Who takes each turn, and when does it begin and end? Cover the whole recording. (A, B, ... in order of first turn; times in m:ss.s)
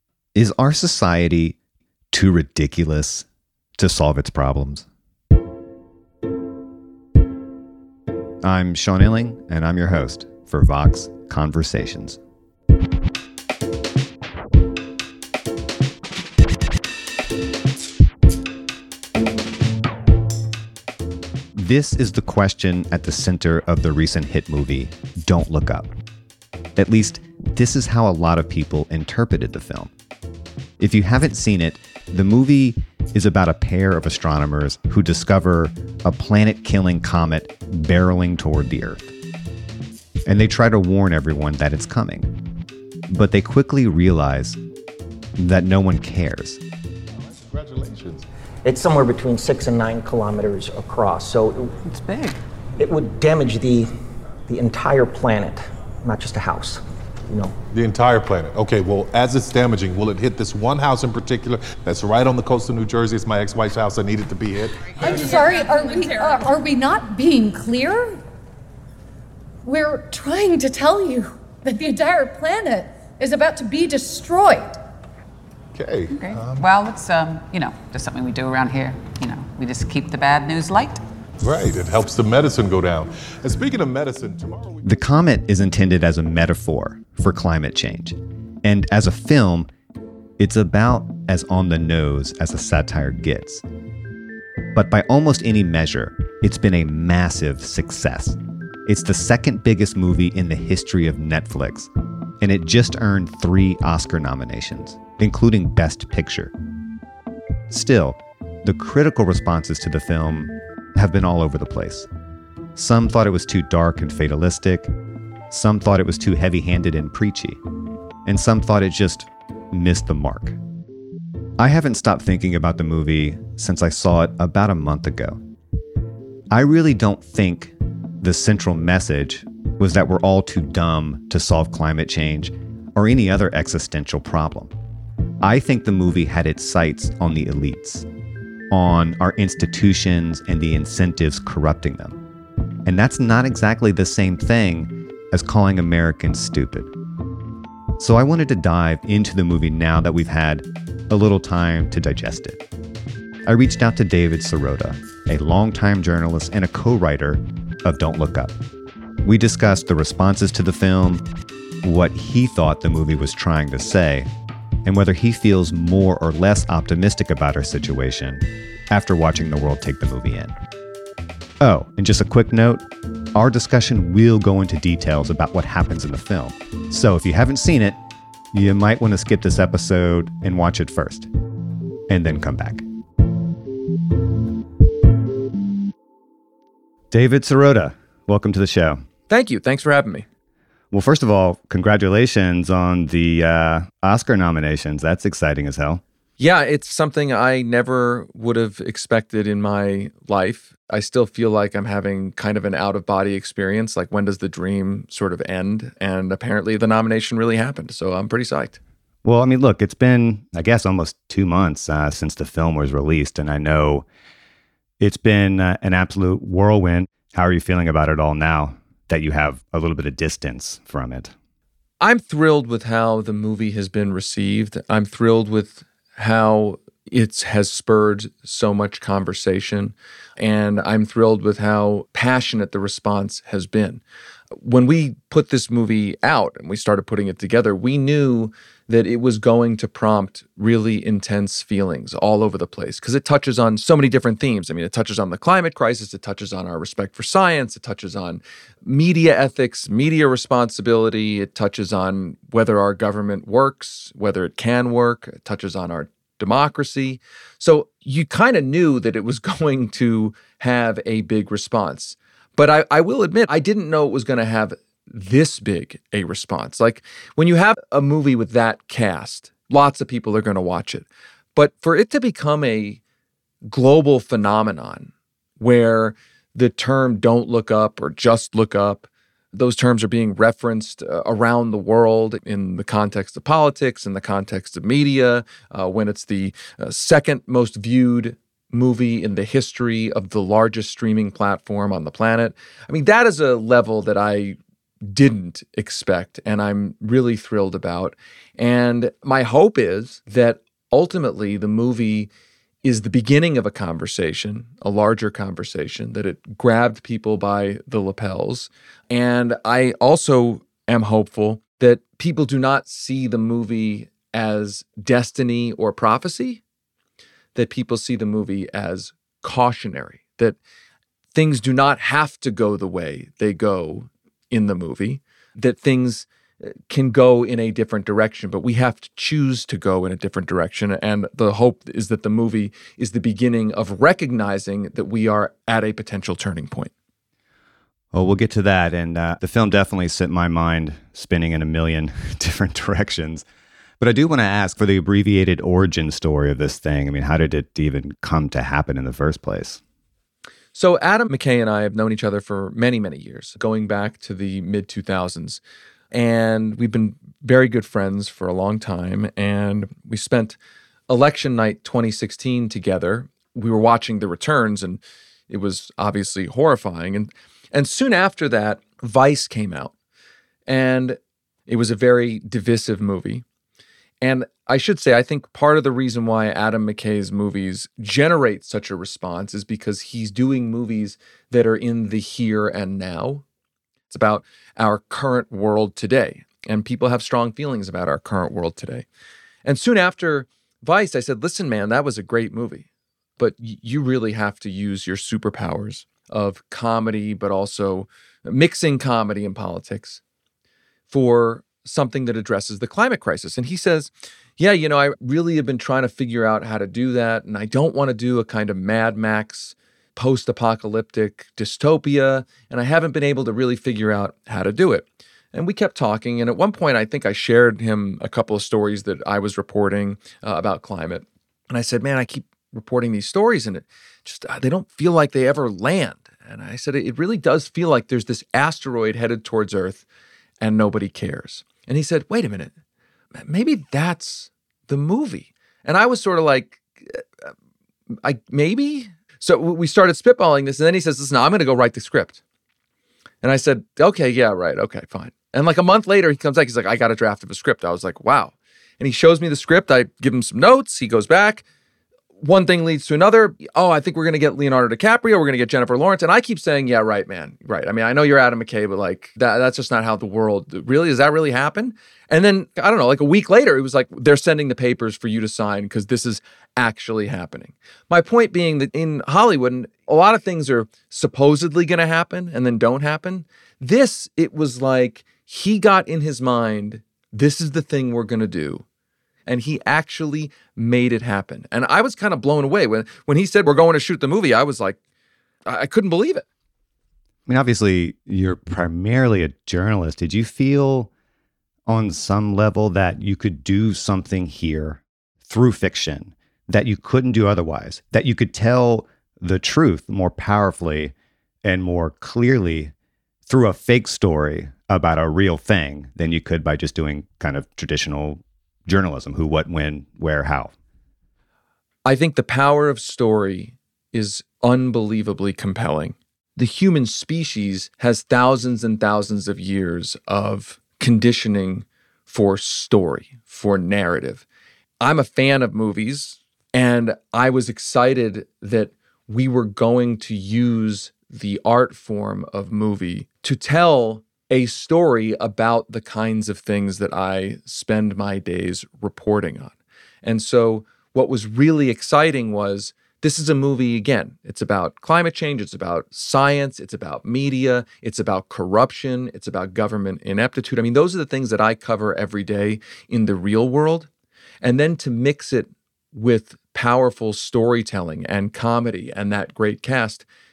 0:00.3-0:01.6 A
0:02.1-0:03.2 A
0:03.8-0:04.9 A
0:08.4-0:12.2 A
0:21.5-0:25.9 A
0:26.8-0:29.9 A
0:30.8-0:39.1 A
0:40.2-0:42.3 A
0:43.1-0:44.6 A
0:45.4-0:46.6 A
0:47.4-0:48.2 B
0:48.6-0:51.8 C
0:51.8-0:52.4 D
0:52.8-0:53.9 C
0:54.5-0:57.6 C
0:57.7-1:05.0 B
1:05.0-1:08.2 E
1:09.6-1:14.8 E
1:15.7-1:16.7 B
1:16.1-1:21.0 D
1:21.4-1:24.8 B
1:24.8-1:29.7 A
1:30.4-1:33.6 A
1:34.7-1:46.5 A
1:47.7-1:52.1 A
1:52.7-1:54.9 A
1:55.5-1:57.6 A
1:58.2-2:00.6 A
2:01.6-2:05.4 A
2:06.5-2:14.7 A
2:15.4-2:18.1 A
2:18.7-2:22.2 A
2:22.8-2:26.9 A
2:28.0-2:32.6 A
2:33.4-2:38.5 A
2:39.2-2:41.2 A
2:41.8-2:44.3 A
2:44.8-2:50.5 A
2:51.6-2:58.0 A
2:58.5-3:01.3 A
3:02.1-3:02.8 A
3:07.1-3:09.0 A
3:09.3-3:10.2 F
3:10.9-3:16.0 A
3:16.4-3:28.8 F
3:29.2-3:34.0 A
3:35.0-3:41.3 A
3:42.0-3:54.0 F
3:54.6-4:33.0 F
4:33.6-5:02.3 F
5:02.8-5:16.6 F
5:17.5-5:20.6 F
5:21.3-5:36.9 F
5:38.1-5:43.4 A
5:44.0-5:49.8 A
5:50.7-5:55.6 F
5:56.1-6:00.6 F
6:01.1-6:09.9 F
6:10.7-6:13.4 F
6:14.2-6:23.4 F
6:24.1-6:29.0 F
6:29.6-6:32.8 F
6:33.4-6:40.2 F
6:41.1-7:10.0 F
7:10.6-7:12.7 F
7:13.4-7:17.5 F
7:18.2-7:22.4 F
7:23.4-7:31.6 F
7:32.4-7:58.8 F
7:59.4-8:05.0 F
8:05.6-8:06.4 F
8:07.5-8:11.1 A
8:11.8-8:22.9 A
8:23.5-8:30.7 A
8:32.0-8:44.4 F
8:45.0-9:14.1 F
9:14.6-9:20.2 F